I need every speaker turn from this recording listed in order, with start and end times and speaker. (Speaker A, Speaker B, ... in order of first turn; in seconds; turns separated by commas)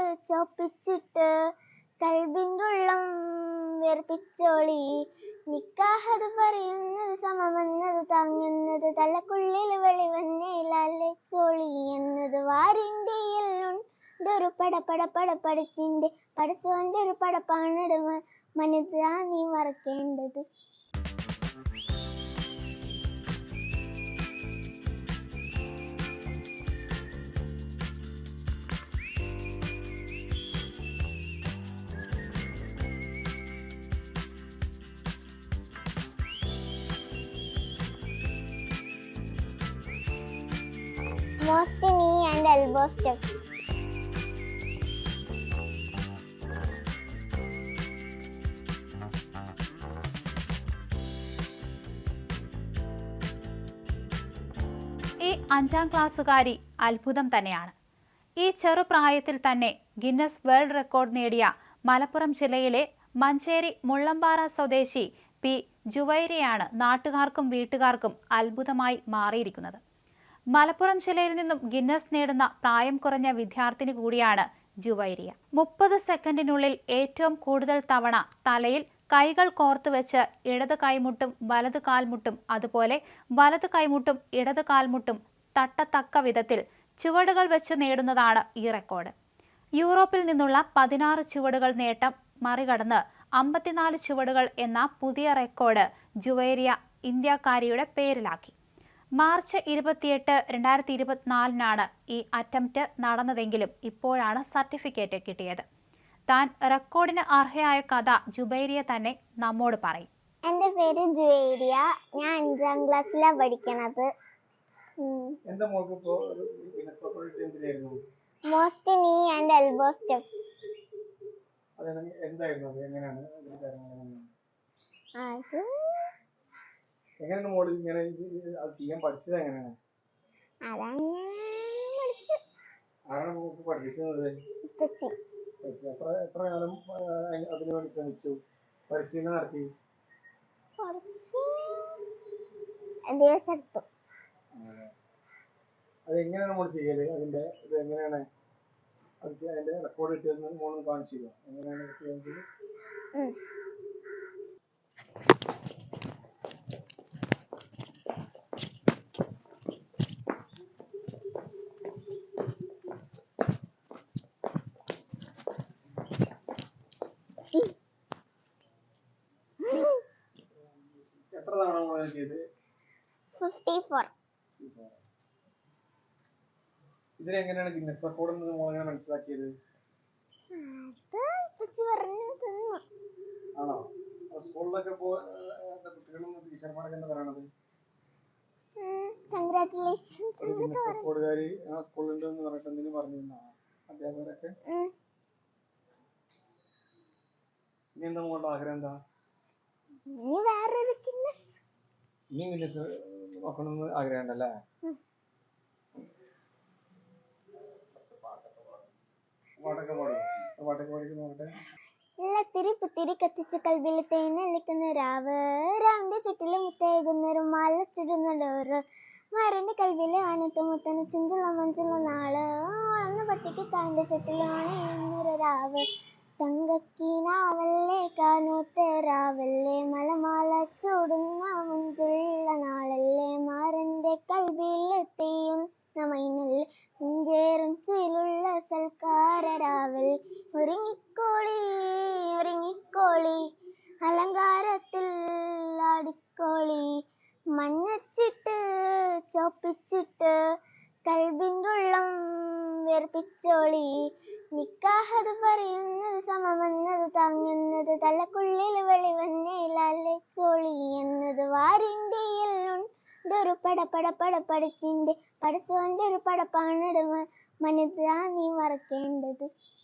Speaker A: 0.3-1.3, Speaker A: 2.0-4.8, Speaker A: 5.5-20.4, Speaker A: 41.4-43.4, Speaker B: 55.2-57.7, Speaker B: 58.4-69.8, Speaker B: 70.5-89.1, Speaker B: 89.8-98.5, Speaker B: 99.2-105.6, Speaker B: 106.3-110.1, Speaker A: 110.5-114.1, Speaker A: 115.0-115.3, Speaker C: 115.5-118.0, Speaker A: 118.5-120.5, Speaker C: 121.8-124.2, Speaker A: 125.2-126.1, Speaker C: 127.2-129.7, Speaker A: 130.6-132.4, Speaker C: 133.1-134.3, Speaker A: 134.7-135.1, Speaker C: 135.6-138.4, Speaker C: 138.9-139.7, Speaker A: 140.8-142.0, Speaker A: 143.1-143.8, Speaker C: 144.6-144.9, Speaker C: 146.1-148.2, Speaker C: 149.2-152.4, Speaker A: 169.6-170.0, Speaker C: 171.3-172.4, Speaker A: 173.4-174.1, Speaker C: 174.6-174.9, Speaker C: 177.2-179.5, Speaker A: 180.5-182.8, Speaker C: 183.6-187.5, Speaker A: 188.8-191.1, Speaker C: 190.4-194.5, Speaker C: 198.0-198.9, Speaker A: 200.1-201.5, Speaker C: 202.3-204.5, Speaker C: 208.2-208.8, Speaker C: 209.6-211.5, Speaker A: 209.7-210.1, Speaker A: 212.2-218.8, Speaker A: 219.3-225.8, Speaker A: 226.4-243.4, Speaker A: 244.0-246.9, Speaker A: 247.6-250.3, Speaker A: 251.1-253.9, Speaker A: 254.5-269.5